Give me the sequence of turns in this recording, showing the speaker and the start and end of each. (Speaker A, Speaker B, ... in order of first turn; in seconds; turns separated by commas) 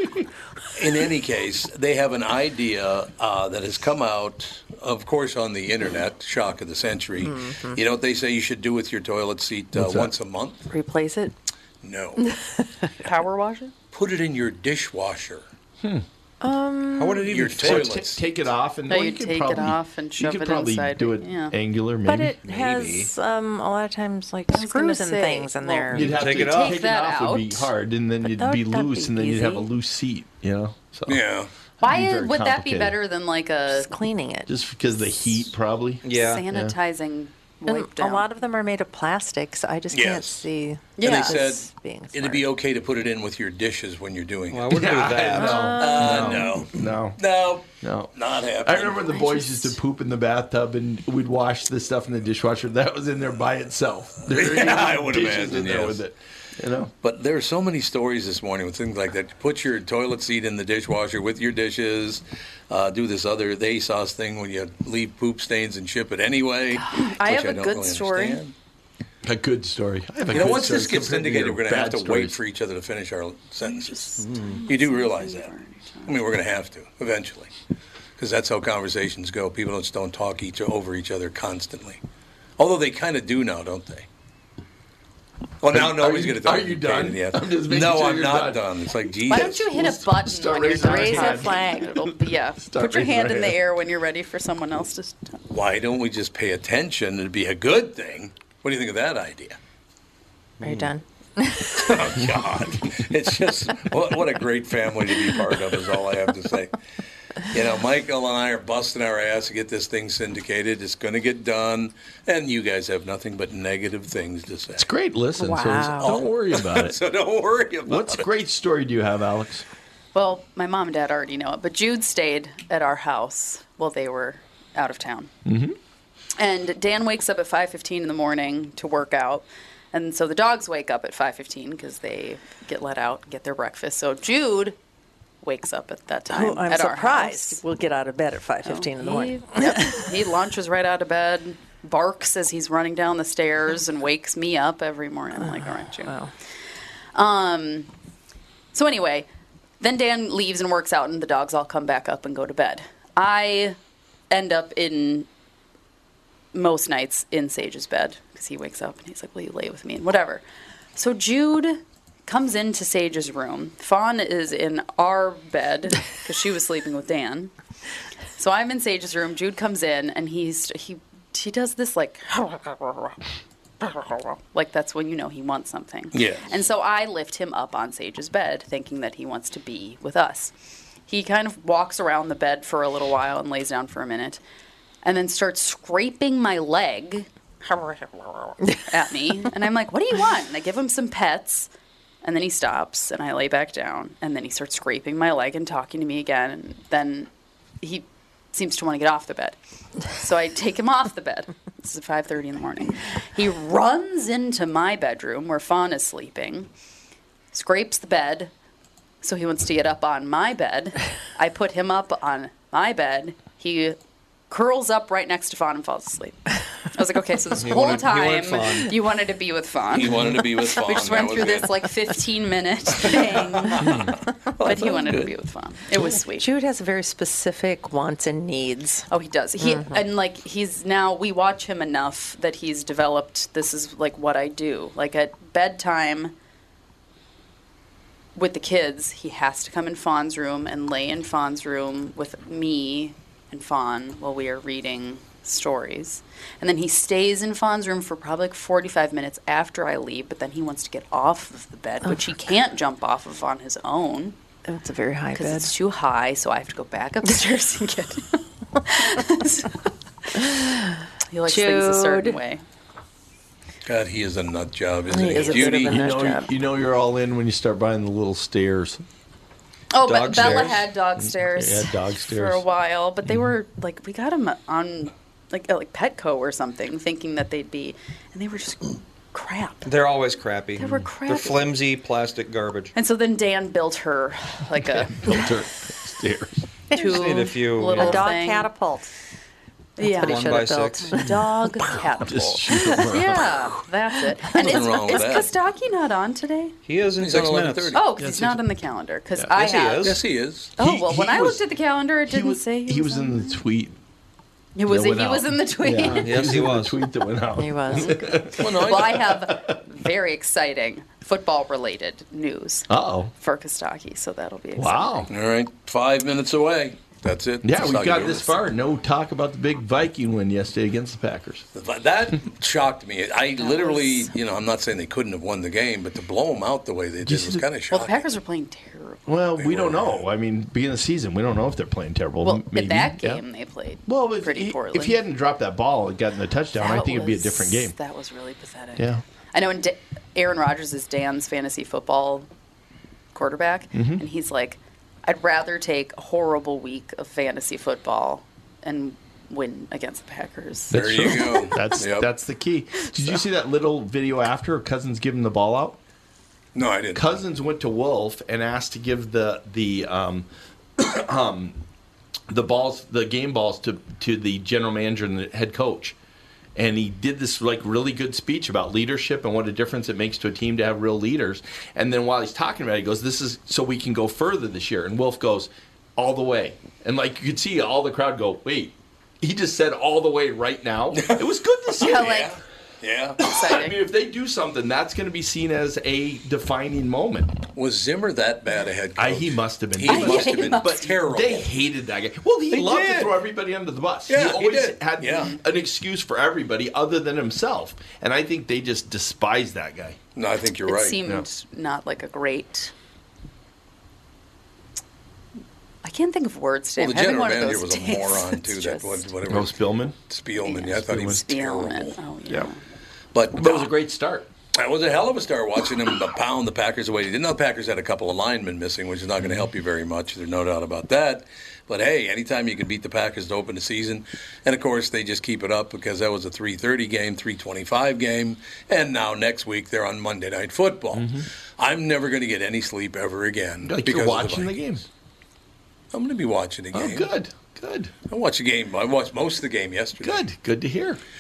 Speaker A: 0.7-10.7, Speaker B: 7.2-7.8, Speaker C: 9.7-10.1, Speaker B: 10.7-11.3, Speaker A: 11.8-12.2, Speaker B: 12.2-12.9, Speaker D: 13.0-13.7, Speaker A: 13.9-15.4, Speaker B: 16.4-17.4, Speaker E: 16.9-17.9, Speaker A: 17.3-18.2, Speaker C: 17.6-22.4, Speaker D: 18.9-21.5, Speaker B: 22.0-26.2, Speaker E: 22.4-23.1, Speaker D: 24.5-27.7, Speaker C: 25.9-31.2, Speaker E: 25.9-26.8, Speaker B: 28.2-29.7, Speaker A: 31.1-31.5, Speaker C: 31.8-33.0, Speaker D: 31.8-33.9, Speaker B: 33.7-34.5, Speaker C: 34.5-36.7, Speaker E: 36.0-36.5, Speaker D: 36.1-38.2, Speaker B: 37.7-42.5, Speaker A: 39.9-40.5, Speaker D: 41.0-41.4, Speaker A: 41.0-44.9, Speaker E: 44.5-46.4, Speaker C: 44.7-47.2, Speaker B: 45.4-46.5, Speaker A: 45.8-49.1, Speaker C: 47.8-56.9, Speaker D: 49.1-49.7, Speaker A: 54.3-56.0, Speaker A: 57.0-68.5, Speaker D: 66.8-68.4, Speaker C: 69.2-72.3, Speaker A: 70.3-75.5, Speaker D: 73.6-76.2, Speaker E: 74.2-74.6, Speaker A: 76.0-77.5, Speaker A: 78.2-82.0, Speaker A: 82.6-84.1, Speaker A: 85.6-89.6, Speaker C: 85.7-93.6, Speaker D: 89.3-95.4, Speaker B: 90.8-91.9, Speaker A: 95.5-99.6, Speaker B: 100.6-101.9, Speaker A: 101.7-106.7, Speaker A: 107.5-114.9, Speaker C: 114.7-117.0, Speaker B: 115.4-116.2, Speaker A: 116.0-118.2, Speaker C: 117.8-119.6, Speaker D: 120.1-125.3, Speaker C: 125.4-125.8, Speaker D: 126.4-134.8, Speaker D: 135.4-137.6, Speaker B: 136.3-140.1, Speaker D: 138.6-146.1, Speaker B: 145.4-146.3, Speaker D: 147.1-147.9, Speaker D: 148.7-149.3, Speaker D: 149.8-153.8, Speaker D: 154.3-155.3, Speaker D: 156.5-160.4, Speaker D: 160.9-167.5, Speaker D: 168.4-173.2, Speaker D: 173.8-180.5, Speaker A: 176.1-176.5, Speaker D: 181.1-184.4, Speaker D: 185.0-191.7, Speaker D: 192.2-197.3, Speaker D: 197.8-199.6, Speaker D: 200.1-206.7, Speaker D: 207.5-208.5, Speaker D: 209.2-214.0, Speaker D: 214.5-226.5, Speaker E: 217.6-218.9, Speaker A: 219.9-221.9, Speaker A: 223.0-225.3, Speaker B: 226.4-229.1, Speaker D: 229.1-236.3, Speaker B: 229.6-230.0, Speaker D: 238.3-254.3, Speaker B: 252.0-252.3, Speaker B: 254.7-255.7, Speaker D: 255.3-260.5, Speaker B: 260.4-262.4, Speaker D: 261.3-262.6, Speaker A: 263.9-265.9, Speaker B: 265.1-266.5, Speaker D: 265.4-265.8, Speaker C: 265.7-269.0, Speaker D: 269.9-279.9, Speaker E: 270.0-270.9, Speaker C: 270.3-272.6, Speaker E: 279.8-282.9, Speaker D: 280.8-281.7, Speaker D: 282.9-285.4, Speaker C: 284.8-286.6, Speaker B: 286.9-287.3, Speaker D: 286.9-288.7, Speaker E: 286.9-288.3, Speaker B: 287.9-289.1, Speaker B: 290.0-291.4, Speaker D: 290.0-296.8, Speaker E: 290.1-291.1, Speaker C: 292.2-293.8, Speaker A: 294.5-295.5, Speaker E: 296.8-298.1, Speaker A: 297.2-298.0, Speaker D: 297.9-300.1, Speaker C: 298.2-298.6, Speaker E: 299.5-300.2, Speaker A: 300.0-300.8, Speaker D: 300.8-303.6, Speaker C: 300.8-301.6, Speaker C: 302.3-303.9, Speaker D: 304.7-306.3, Speaker C: 304.9-309.8, Speaker E: 306.0-307.0, Speaker B: 307.5-308.5, Speaker D: 307.9-315.3, Speaker A: 308.6-309.3, Speaker C: 312.9-313.3, Speaker C: 314.7-315.3, Speaker A: 315.3-318.5, Speaker C: 317.6-321.6, Speaker A: 321.7-328.3, Speaker D: 323.6-324.3, Speaker C: 327.2-327.6, Speaker D: 327.9-329.4, Speaker C: 329.3-333.4, Speaker A: 329.6-330.2, Speaker D: 332.4-335.2, Speaker C: 334.1-337.9, Speaker D: 336.7-342.5, Speaker C: 339.0-339.2, Speaker D: 343.3-351.6, Speaker C: 343.9-344.2, Speaker C: 350.9-356.0, Speaker A: 350.9-352.3, Speaker A: 356.7-357.2, Speaker C: 357.1-360.5, Speaker C: 361.0-361.8, Speaker C: 362.5-366.1, Speaker C: 366.8-382.5, Speaker A: 381.1-381.4, Speaker D: 382.0-382.6, Speaker A: 382.0-383.4, Speaker D: 383.4-384.0, Speaker C: 383.4-387.5, Speaker A: 387.7-391.7, Speaker C: 389.2-400.2, Speaker D: 390.1-391.1, Speaker A: 392.7-393.4, Speaker A: 394.3-395.6, Speaker A: 400.4-401.2, Speaker D: 400.9-402.9, Speaker D: 406.0-409.3, Speaker A: 407.0-412.2, Speaker C: 409.5-410.2, Speaker D: 410.6-412.8, Speaker C: 410.9-411.4, Speaker A: 413.3-413.9, Speaker C: 413.5-414.5, Speaker A: 414.7-434.8, Speaker C: 431.1-431.5, Speaker C: 433.8-435.1, Speaker A: 436.1-437.3, Speaker C: 436.9-438.1, Speaker A: 438.3-440.4, Speaker C: 440.2-441.2